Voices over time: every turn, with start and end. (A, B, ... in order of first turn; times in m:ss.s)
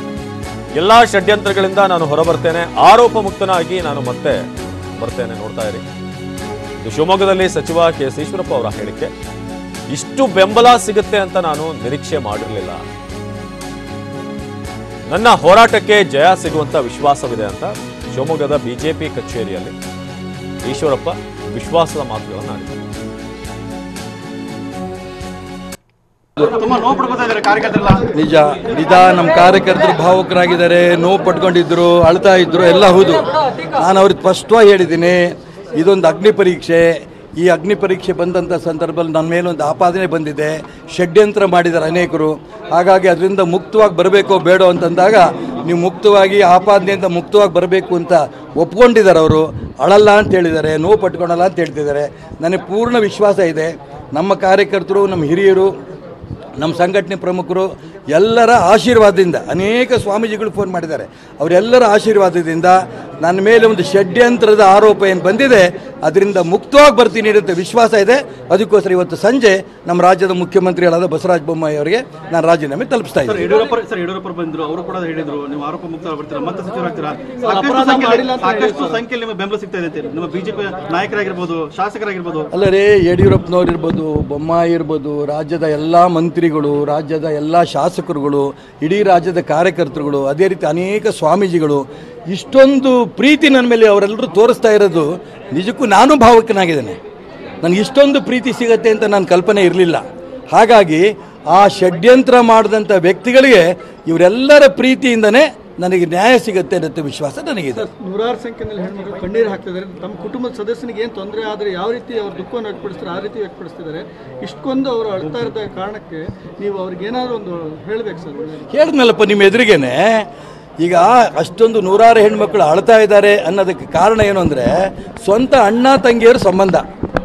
0:00.7-0:04.5 A
0:05.0-0:05.8 A
0:06.8-0:09.1 A
0:09.9-0:12.8 A
0:15.1-0:19.7 A
0:20.6-0:22.8 A
0:26.4-0:28.1 B
0:28.1-0:55.7 C
0:56.6-1:13.4 C
1:13.3-1:22.5 B
1:17.4-1:19.0 D
1:22.5-1:37.0 C
1:37.6-1:47.8 C
1:47.7-1:58.6 D
1:58.7-2:00.3 C
2:00.8-2:06.8 C